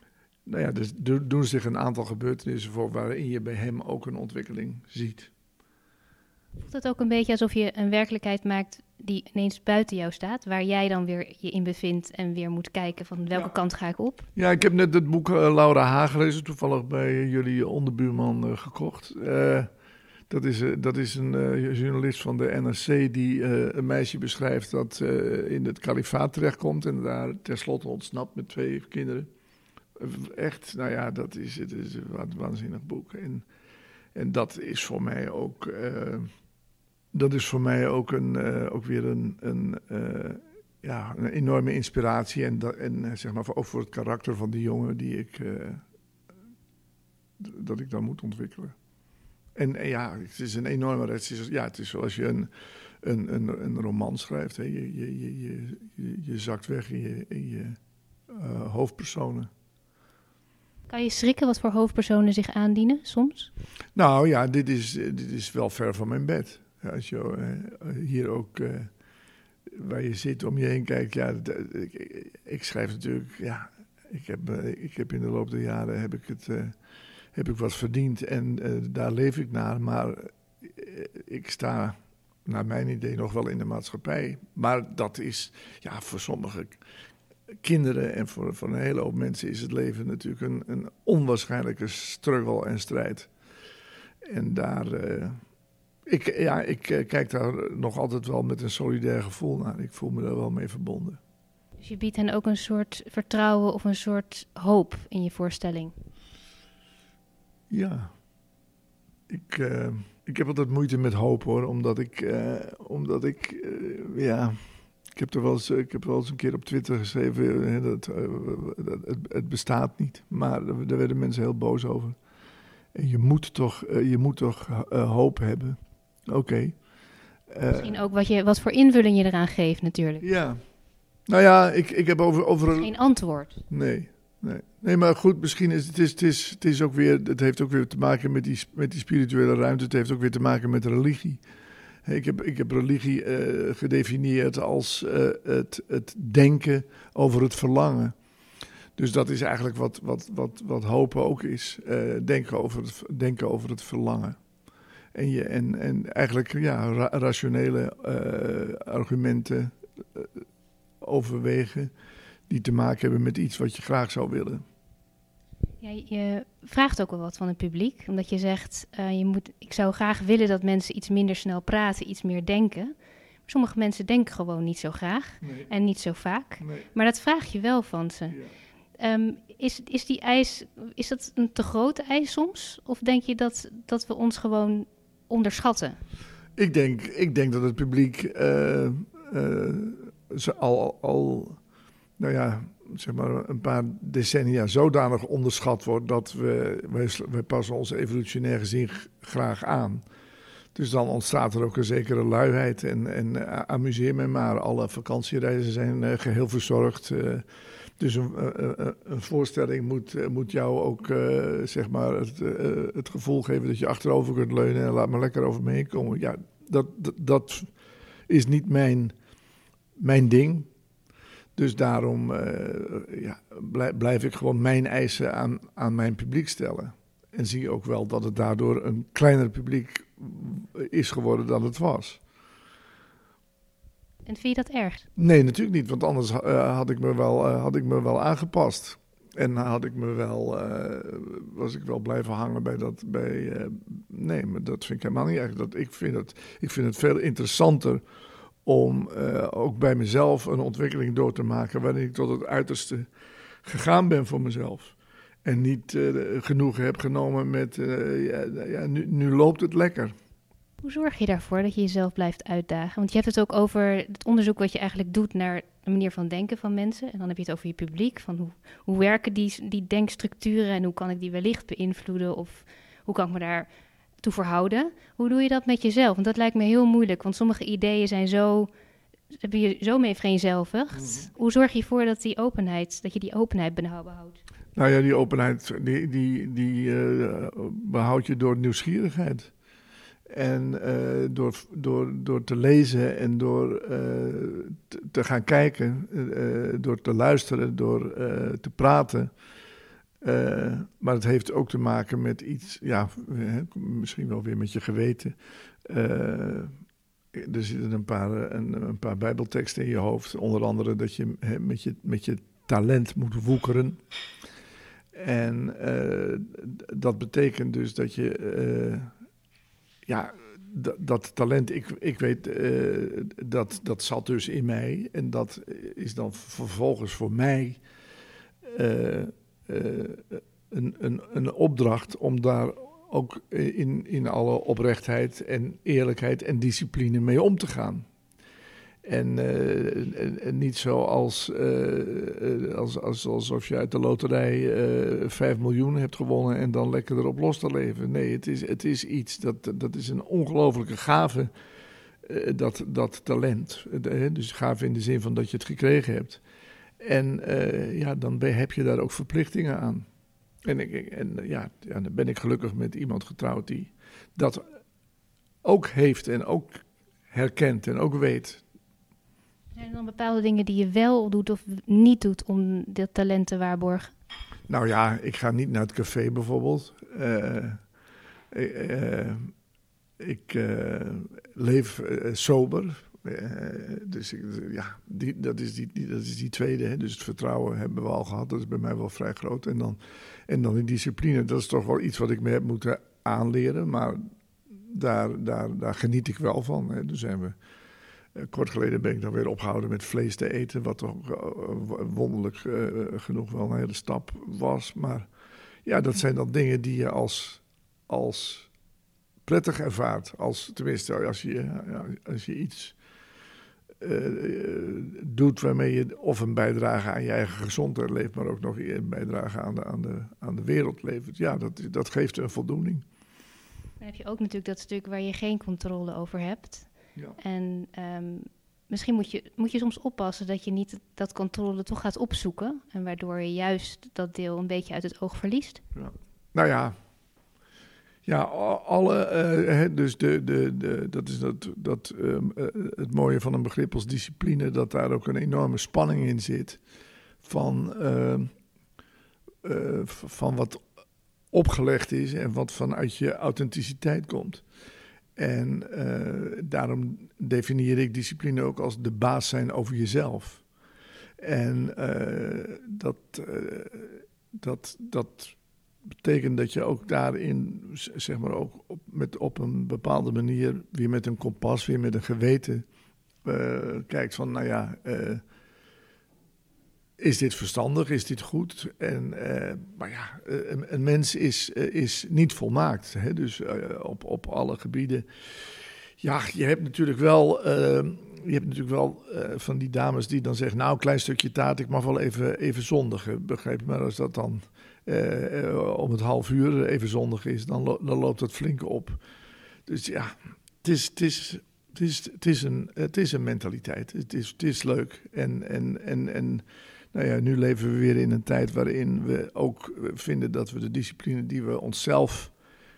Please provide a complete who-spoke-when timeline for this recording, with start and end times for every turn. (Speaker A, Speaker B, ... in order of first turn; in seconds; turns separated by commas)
Speaker A: 0.5-5.3, Speaker B: 6.6-14.2, Speaker A: 14.3-19.7, Speaker A: 20.3-29.3, Speaker A: 30.0-33.5, Speaker A: 34.1-36.3, Speaker A: 37.1-45.8, Speaker A: 47.4-48.7, Speaker A: 49.5-52.5, Speaker A: 53.0-57.8, Speaker A: 58.3-59.5, Speaker B: 60.9-63.5, Speaker A: 63.9-68.9, Speaker A: 69.7-76.7, Speaker A: 77.3-86.8, Speaker A: 87.6-93.3, Speaker A: 94.2-95.4, Speaker A: 96.0-101.2, Speaker B: 101.8-105.9, Speaker A: 107.7-108.1, Speaker A: 109.3-114.6, Speaker A: 115.1-122.2, Speaker A: 122.9-126.8, Speaker A: 127.5-127.9, Speaker B: 127.7-130.2, Speaker A: 130.2-130.6, Speaker A: 131.3-132.9, Speaker B: 132.7-133.6, Speaker A: 133.7-141.4, Speaker A: 142.0-148.1, Speaker A: 148.9-154.4, Speaker A: 155.1-160.4, Speaker A: 161.0-161.9, Speaker A: 162.5-164.6, Speaker B: 165.8-172.9, Speaker B: 173.4-178.4, Speaker A: 175.4-175.7, Speaker A: 176.6-176.9, Speaker B: 179.0-186.0, Speaker A: 186.6-191.6, Speaker A: 192.2-200.0, Speaker A: 200.7-207.5, Speaker A: 208.0-217.7, Speaker A: 218.3-219.1, Speaker A: 220.0-220.7, Speaker A: 221.6-232.2, Speaker B: 234.2-235.1, Speaker A: 235.2-248.0, Speaker A: 248.6-253.1, Speaker A: 253.6-260.1, Speaker B: 260.8-273.7, Speaker B: 274.2-278.7, Speaker B: 279.3-284.4, Speaker A: 280.9-281.3, Speaker A: 284.7-289.5, Speaker A: 290.3-299.3, Speaker A: 300.2-306.7, Speaker A: 307.3-314.0, Speaker A: 315.1-319.1, Speaker A: 320.1-327.8, Speaker A: 328.6-338.1, Speaker A: 339.0-351.5, Speaker A: 352.2-356.4, Speaker A: 357.0-360.1, Speaker A: 360.6-364.7, Speaker A: 365.6-368.6, Speaker B: 369.7-374.1, Speaker A: 374.7-377.8, Speaker A: 378.5-379.5, Speaker A: 380.2-397.6, Speaker A: 398.3-405.3, Speaker A: 405.8-408.7, Speaker A: 409.4-412.9, Speaker A: 414.0-423.0, Speaker B: 424.0-435.8, Speaker A: 435.9-436.9, Speaker A: 438.2-446.8, Speaker A: 447.4-448.5, Speaker A: 449.6-450.8, Speaker A: 451.5-454.6, Speaker A: 455.4-460.6, Speaker A: 461.4-465.6, Speaker A: 466.1-472.9, Speaker A: 473.4-475.4, Speaker A: 477.2-499.2, Speaker A: 499.9-512.5